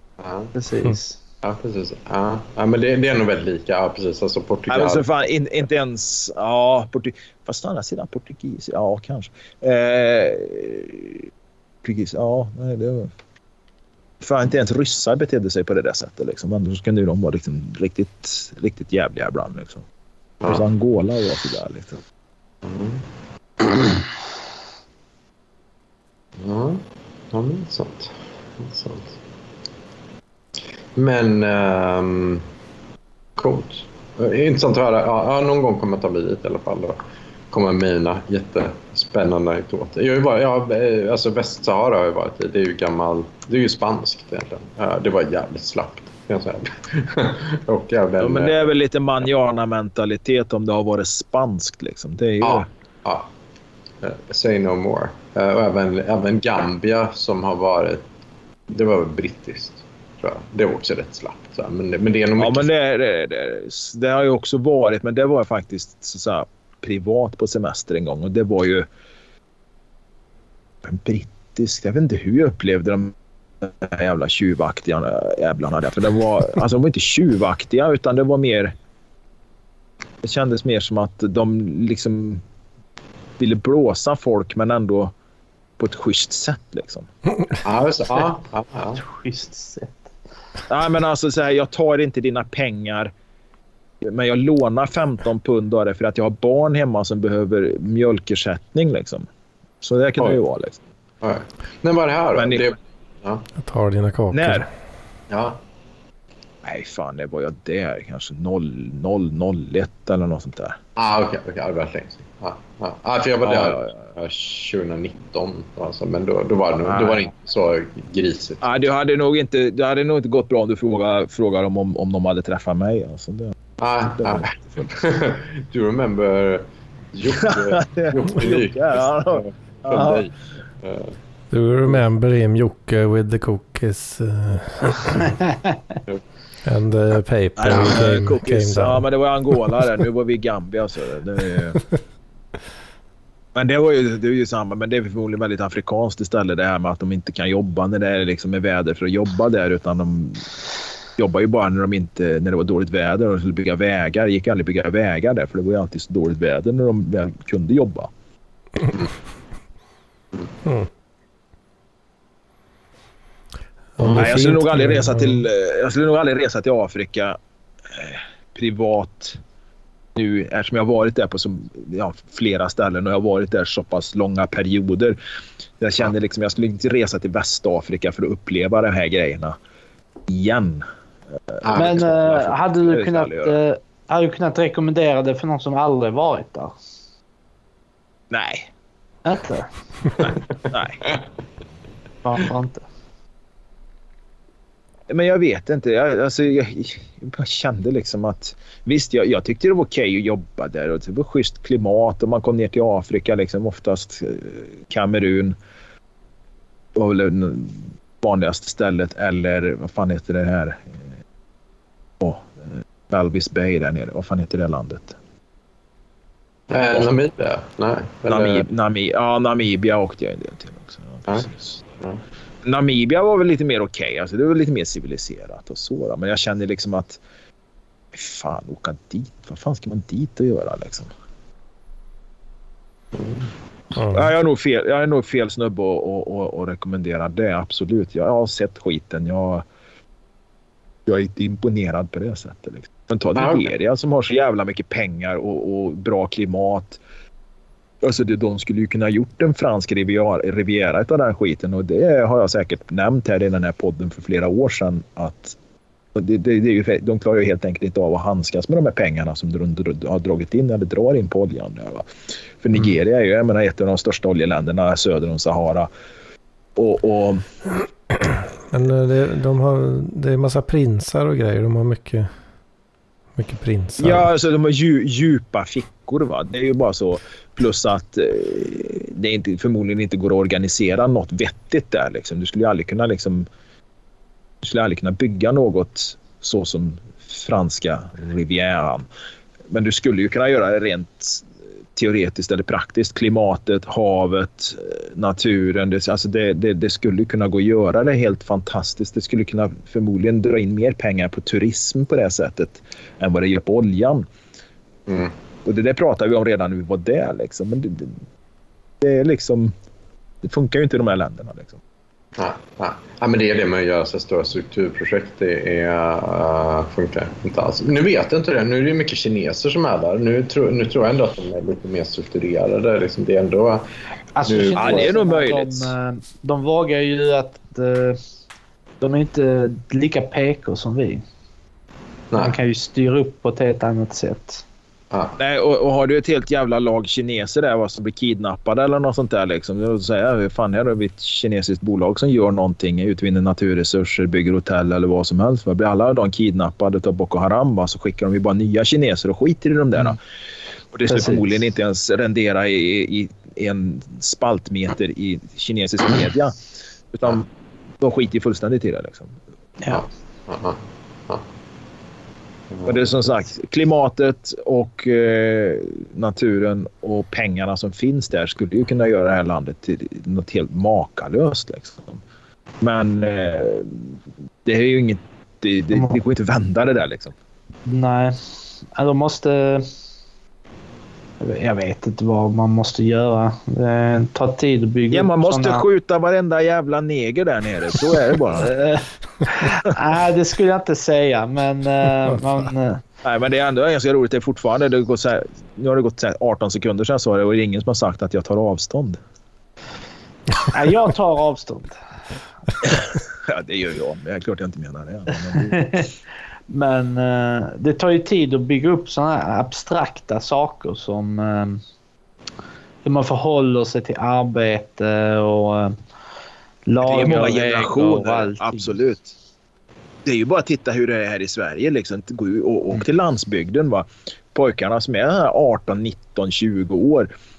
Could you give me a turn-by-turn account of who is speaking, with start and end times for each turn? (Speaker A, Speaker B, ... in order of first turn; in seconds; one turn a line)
Speaker A: 0.2-0.5
Speaker B: 0.6-1.2
Speaker A: 1.4-5.1
Speaker C: 4.7-11.3
Speaker C: 11.8-13.1
Speaker C: 14.2-19.9
Speaker C: 20.5-22.0
Speaker A: 22.6-23.0
Speaker A: 26.4-29.2
Speaker A: 30.9-32.5
Speaker A: 33.4-37.0
Speaker A: 37.5-48.7
Speaker C: 48.2-52.7
Speaker A: 52.4-53.3
Speaker A: 54.0-58.0
Speaker A: 58.7-62.7
Speaker C: 62.4-68.9
Speaker C: 70.8-78.8
Speaker C: 80.2-82.4
Speaker C: 83.4-85.1
Speaker C: 85.8-87.1
Speaker A: 87.6-89.0
Speaker B: 89.0-90.1
Speaker C: 90.7-93.1
Speaker C: 94.0-99.2
Speaker C: 99.8-100.8
Speaker A: 101.2-103.5
Speaker C: 102.3-102.7
Speaker D: 103.6-104.7
Speaker C: 104.3-104.7
Speaker A: 105.3-105.6
Speaker C: 106.6-110.8
Speaker A: 111.0-118.7
Speaker C: 113.4-113.9
Speaker C: 116.9-117.3
Speaker C: 118.6-124.9
Speaker A: 123.8-131.2
Speaker C: 127.3-130.3
Speaker D: 131.5-135.4
Speaker D: 136.7-139.1
Speaker C: 137.6-141.8
Speaker C: 143.6-150.4
Speaker C: 151.2-158.1
Speaker D: 160.6-160.9
Speaker D: 164.0-165.5
Speaker A: 164.0-164.4
Speaker C: 164.1-167.4
Speaker C: 167.9-169.4
Speaker C: 170.2-175.2
Speaker C: 175.8-179.6
Speaker C: 180.3-180.8
Speaker C: 181.5-183.6
Speaker A: 181.6-182.1
Speaker B: 181.7-186.7
Speaker C: 188.3-188.7
Speaker B: 189.2-189.7
Speaker C: 190.2-191.0
Speaker B: 192.2-192.8
Speaker C: 195.1-205.6
Speaker C: 206.9-210.9
Speaker C: 212.2-215.2
Speaker A: 216.7-218.7
Speaker C: 218.3-221.7
Speaker A: 221.3-222.2
Speaker C: 222.6-227.2
Speaker C: 228.1-231.1
Speaker A: 233.1-233.5
Speaker D: 233.9-234.3
Speaker C: 234.1-239.7
Speaker C: 241.1-247.0
Speaker A: 243.4-243.7
Speaker C: 248.0-255.6
Speaker C: 256.1-262.1
Speaker C: 262.6-265.9
Speaker C: 266.8-267.4
Speaker D: 268.1-272.3
Speaker D: 273.4-274.3
Speaker C: 274.0-283.5
Speaker C: 284.6-289.1
Speaker C: 289.7-304.3
Speaker A: 305.1-305.3
Speaker C: 305.6-308.2
Speaker C: 309.0-309.7
Speaker C: 310.4-311.8
Speaker A: 312.4-323.9
Speaker B: 324.4-328.2
Speaker A: 324.5-325.1
Speaker C: 324.8-325.9
Speaker B: 329.0-331.2
Speaker A: 332.3-332.6
Speaker B: 332.4-334.6
Speaker A: 335.1-335.4
Speaker C: 335.4-350.2
Speaker C: 350.9-356.6
Speaker B: 351.1-351.5
Speaker C: 357.1-357.5
Speaker C: 358.0-359.3
Speaker A: 359.9-361.4
Speaker C: 362.9-372.2
Speaker C: 372.8-377.3
Speaker B: 375.9-376.2
Speaker B: 377.9-378.4
Speaker B: 378.9-379.9
Speaker B: 381.4-385.8
Speaker C: 385.1-388.8
Speaker B: 388.6-393.0
Speaker C: 393.2-399.2
Speaker B: 400.7-401.9
Speaker C: 402.8-405.9
Speaker B: 405.5-406.1
Speaker B: 406.7-411.8
Speaker B: 413.0-415.9
Speaker B: 416.9-418.9
Speaker C: 417.0-419.4
Speaker C: 420.2-427.3